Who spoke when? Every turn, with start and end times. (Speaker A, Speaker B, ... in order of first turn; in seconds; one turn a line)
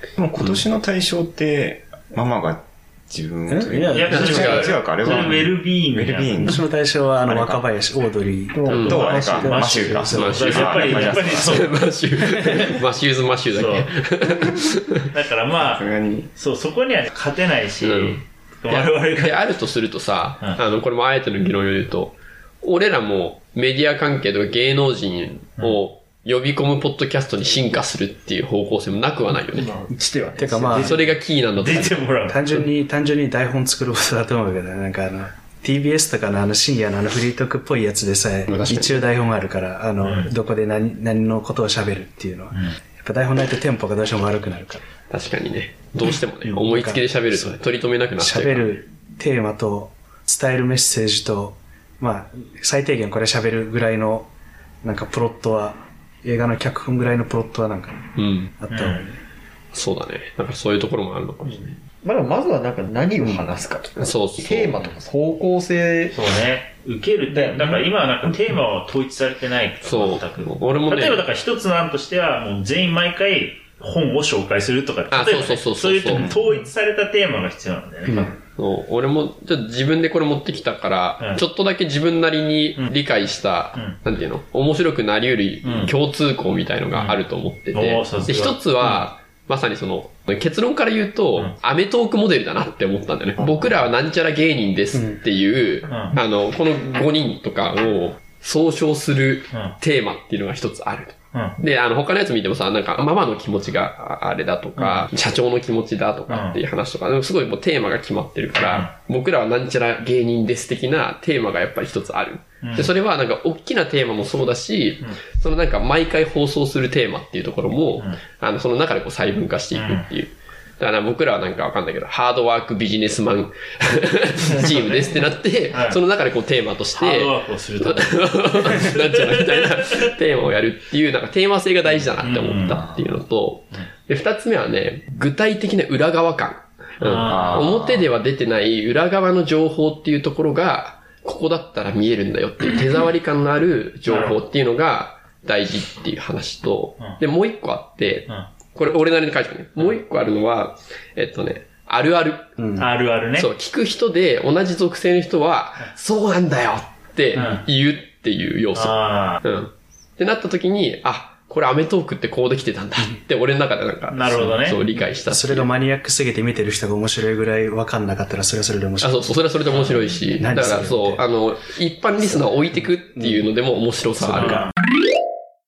Speaker A: 0.2-6.7
Speaker B: 3.5-4.3
Speaker C: 3.9-6.6
Speaker D: 4.1-4.7
Speaker B: 6.4-11.4
Speaker A: 7.2-7.6
Speaker E: 8.5-9.8
Speaker A: 8.7-11.7
Speaker C: 8.9-11.8
Speaker D: 10.1-15.1
Speaker C: 12.4-12.7
Speaker C: 13.5-13.9
Speaker C: 15.1-19.5
Speaker A: 15.6-16.3
Speaker D: 17.8-29.8
Speaker E: 29.5-30.9
Speaker B: 30.4-31.0
Speaker C: 30.7-32.6
Speaker D: 30.7-32.0
Speaker B: 32.3-44.8
Speaker D: 38.5-39.1
Speaker C: 40.0-40.3
Speaker C: 42.5-42.8
Speaker D: 45.1-48.7
Speaker B: 46.5-47.6
Speaker B: 48.2-54.3
Speaker B: 54.8-59.2
Speaker D: 58.2-58.5
Speaker C: 58.7-59.1
Speaker D: 59.7-61.8
Speaker E: 61.5-66.2
Speaker D: 64.0-65.0
Speaker C: 66.1-78.4
Speaker E: 67.3-67.9
Speaker D: 69.8-71.2
Speaker D: 75.1-76.3
Speaker B: 76.1-76.7
Speaker B: 78.0-78.4
Speaker D: 78.6-152.5
Speaker C: 85.6-86.0
Speaker C: 86.9-87.2
Speaker C: 87.7-89.0
Speaker A: 93.4-93.7
Speaker B: 94.9-95.2
Speaker C: 95.9-96.2
Speaker C: 104.8-105.1
Speaker C: 106.3-106.6
Speaker C: 108.6-108.9
Speaker C: 112.6-112.9
Speaker C: 119.7-120.1
Speaker C: 124.6-126.0
Speaker C: 127.0-129.3
Speaker C: 132.2-133.1
Speaker C: 137.0-137.7
Speaker A: 137.2-138.1
Speaker C: 144.1-144.4
Speaker B: 152.6-152.9
Speaker C: 152.8-153.5
Speaker D: 153.4-165.7
Speaker C: 157.3-157.7
Speaker C: 158.8-159.4
Speaker C: 164.1-164.8
Speaker B: 165.3-169.4
Speaker D: 169.0-174.7
Speaker B: 170.4-171.2
Speaker B: 172.7-173.5
Speaker B: 174.2-174.6
Speaker C: 174.4-174.7